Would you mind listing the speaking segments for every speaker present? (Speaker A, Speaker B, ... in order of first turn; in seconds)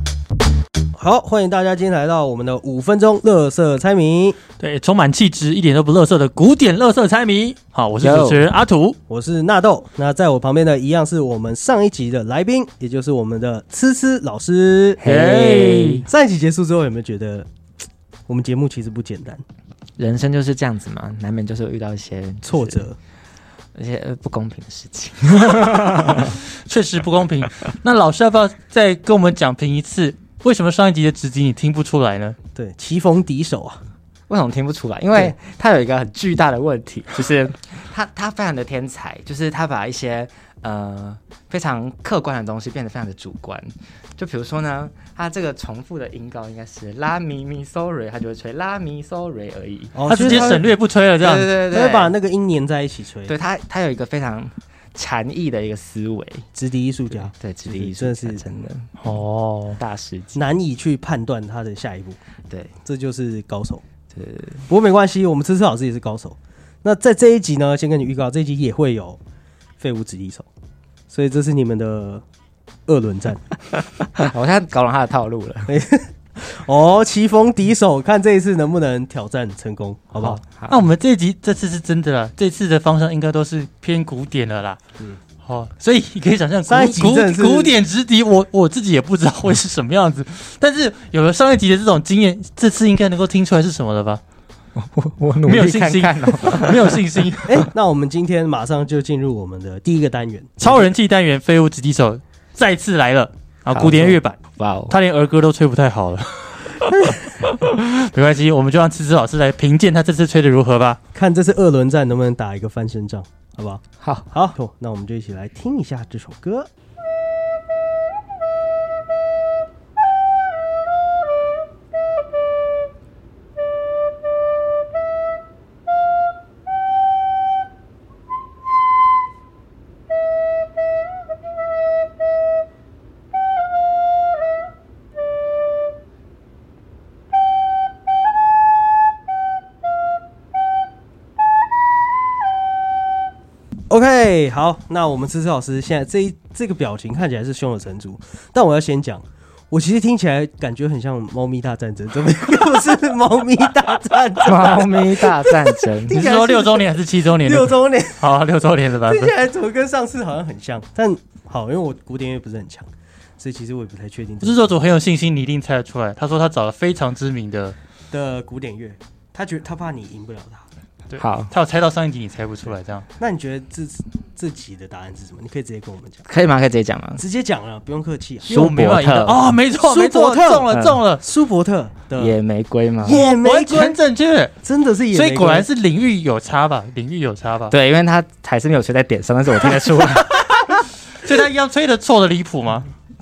Speaker A: 1.0-4.4, 9.1-15.0, 16.1-17.5, 18.3-19.4, 22.4-23.0, 32.5-33.8, 49.9-50.7, 51.7-53.4, 56.5-58.4, 60.4-62.2, 62.8-63.8, 64.7-69.2, 69.8-70.5, 71.1-72.2, 72.9-73.4, 75.7-80.4, 86.7-87.8, 97.5-100.9, 106.9-107.2, 111.1-116.7, 143.9-158.4, 159.1-164.8, 168.1-170.7, 173.2-176.2, 177.2-178.7, 179.8-182.4, 183.0-184.0, 184.6-185.7
Speaker B: 4.6-9.0, 15.0-16.1, 26.3-32.4, 50.1-51.5, 59.0-59.8, 80.2-84.8, 85.4-94.2, 95.5-97.7, 100.6-104.4, 104.9-111.0, 156.1-159.3, 164.4-167.8, 171.1-173.1, 178.5-181.2, 183.1-184.5, 185.1-187.8, 191.2-192.9
Speaker C: 8.0-8.5, 15.0-16.1, 20.0-22.9, 23.8-26.3, 34.3-50.6, 51.2-52.1, 53.3-56.5, 57.3-58.9, 59.8-60.4, 64.1-64.7, 74.2-75.8, 80.5-80.8, 94.8-97.0, 103.7-105.0, 114.0-114.3, 154.4-156.2, 171.2-171.5, 176.2-177.2, 178.5-179.5, 180.7-181.0, 182.2-183.2, 187.7-190.5